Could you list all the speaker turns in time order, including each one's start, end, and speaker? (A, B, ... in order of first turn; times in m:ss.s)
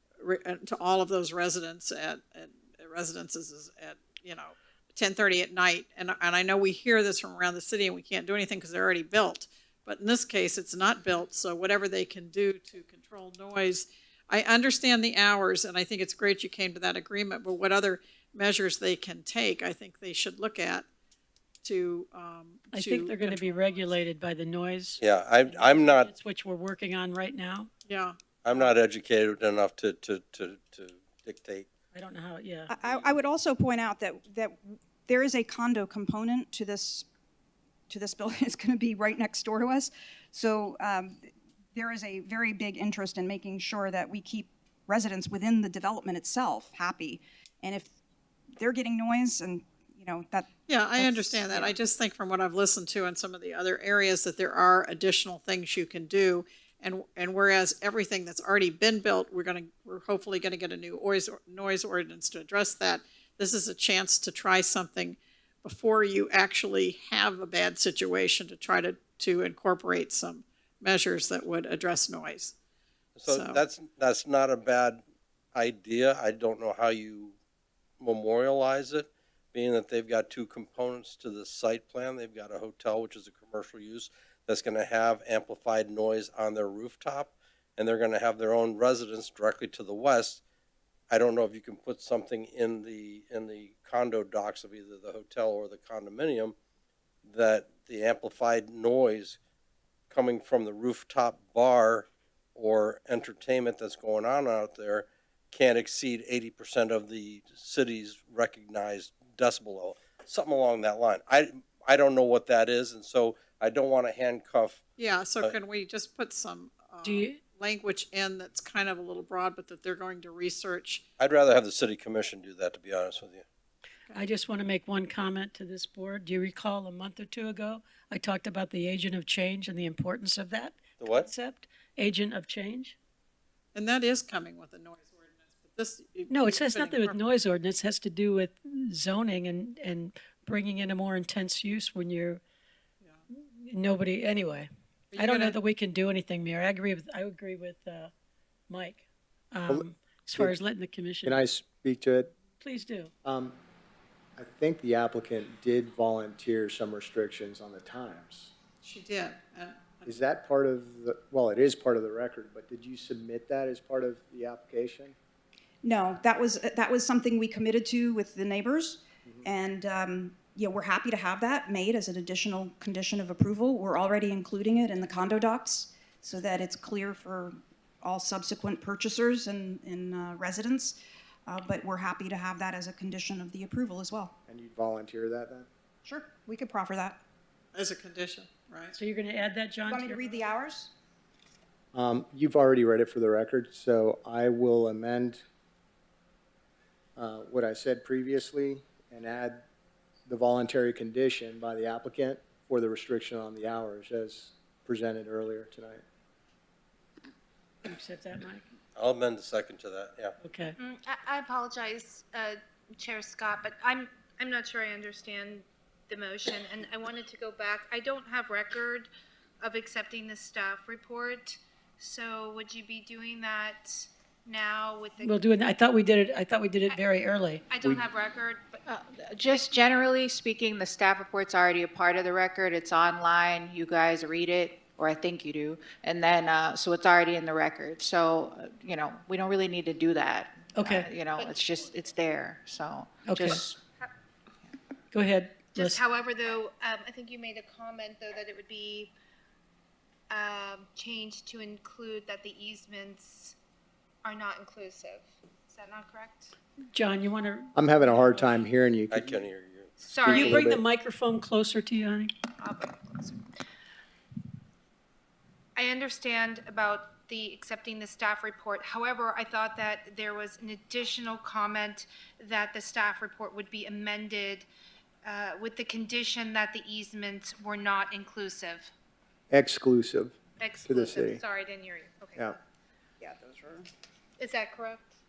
0:00.2-0:20.9 A
0:21.6-0:24.0 A
0:22.7-0:27.7 B
0:25.0-0:26.1 C
0:27.8-0:28.7 A
0:28.4-0:31.7 C
0:31.9-0:32.7 B
0:32.7-0:37.1 D
0:37.9-0:47.9 D
0:48.6-0:51.7 D
0:50.7-1:12.6 A
1:13.2-1:15.0 C
1:13.3-1:13.6 A
1:15.5-1:17.4 C
1:18.0-1:30.4 C
1:31.1-1:36.6 C
1:37.3-1:39.4 C
1:40.1-1:54.8 C
1:55.0-2:01.0 A
1:57.0-1:57.4 B
2:01.2-2:03.4 C
2:04.1-2:13.0 B
2:11.0-2:11.3 C
2:13.7-2:17.2 A
2:16.3-2:22.4 B
2:23.3-2:28.1 B
2:25.1-2:25.6 A
2:28.7-2:31.4 B
2:29.7-2:30.5 E
2:31.2-2:32.3 E
2:32.6-2:33.1 B
2:33.2-2:33.6 E
2:34.4-2:38.5 E
2:38.8-2:40.2 A
2:40.0-2:45.2 E
2:45.8-3:04.3 D
2:49.2-2:49.5 E
3:04.5-3:05.7 E
3:06.0-3:07.2 D
3:07.7-3:09.0 A
3:08.9-3:10.4 B
3:09.9-3:10.9 D
3:11.9-3:15.4 E
3:17.2-3:19.6 E
3:20.3-3:26.0 E
3:27.8-3:28.6 B
3:29.0-3:30.4 C
3:30.4-3:30.7 B
3:30.8-3:39.1 F
3:39.6-3:45.4 F
3:45.2-3:47.6 B
3:47.7-3:48.8 F
3:48.8-4:03.8 G
4:00.7-4:01.1 B
4:01.4-4:02.1 F
4:03.2-4:03.6 B
4:05.1-4:06.0 B
4:05.7-4:09.1 F
4:10.3-4:13.6 F
4:14.2-4:16.5 F
4:16.9-4:17.7 B
4:17.8-4:19.4 E
4:19.1-4:19.9 C
4:20.0-4:20.5 F
4:20.2-4:20.8 E
4:20.3-4:22.3 B
4:22.6-4:23.4 F
4:25.8-4:34.7 F
4:35.2-4:38.9 F
4:39.5-4:41.4 E
4:40.6-4:42.6 F
4:43.2-4:43.9 D
4:44.4-4:45.0 F